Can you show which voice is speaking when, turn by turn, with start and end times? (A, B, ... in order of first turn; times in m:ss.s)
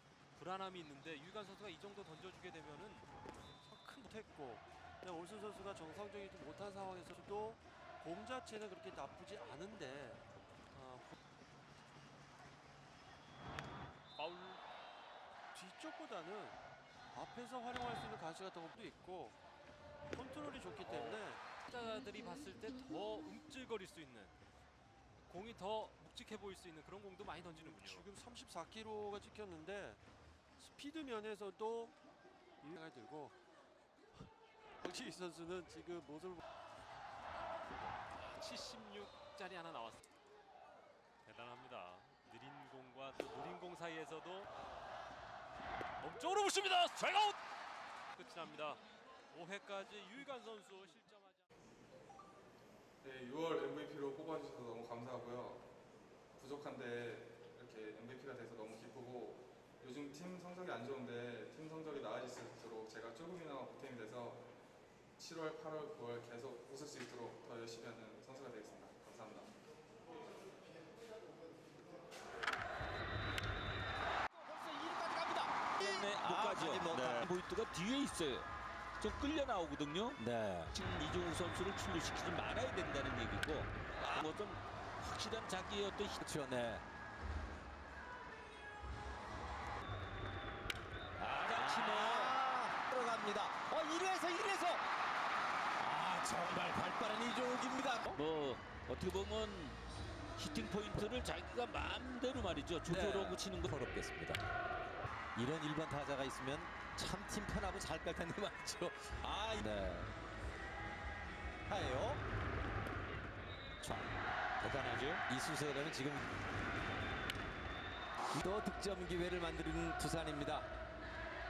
0:00.3-0:03.1 A
0:03.6-0:10.2 B
0:10.7-0:11.2 A
0:14.2-0:14.6 A
0:15.5-0:16.6 B
0:17.1-0:19.4 B
0:20.1-0:21.4 B
0:20.8-0:24.4 A
0:25.3-0:28.1 A
0:27.4-0:30.0 B
0:30.6-0:32.0 B
0:32.6-0:33.4 B
0:34.8-0:36.4 B
0:38.0-0:40.1 A
0:41.2-0:44.5 A
0:46.0-0:47.4 A
0:48.2-0:51.5 A
0:53.0-0:55.7 C
0:56.4-1:04.5 C
1:05.2-1:09.5 C
1:14.3-1:17.3 D
1:15.8-1:18.5 E
1:19.0-1:26.2 E
1:20.2-1:20.7 D
1:26.2-1:26.8 D
1:31.2-1:32.4 E
1:31.5-1:34.8 D
1:35.8-1:38.2 D
1:38.1-1:39.8 E
1:40.4-1:43.8 E
1:42.8-1:44.4 D
1:45.4-1:50.1 D
1:51.7-1:52.2 D
1:53.8-1:54.1 D
1:54.6-1:56.2 D
1:58.3-2:00.7 D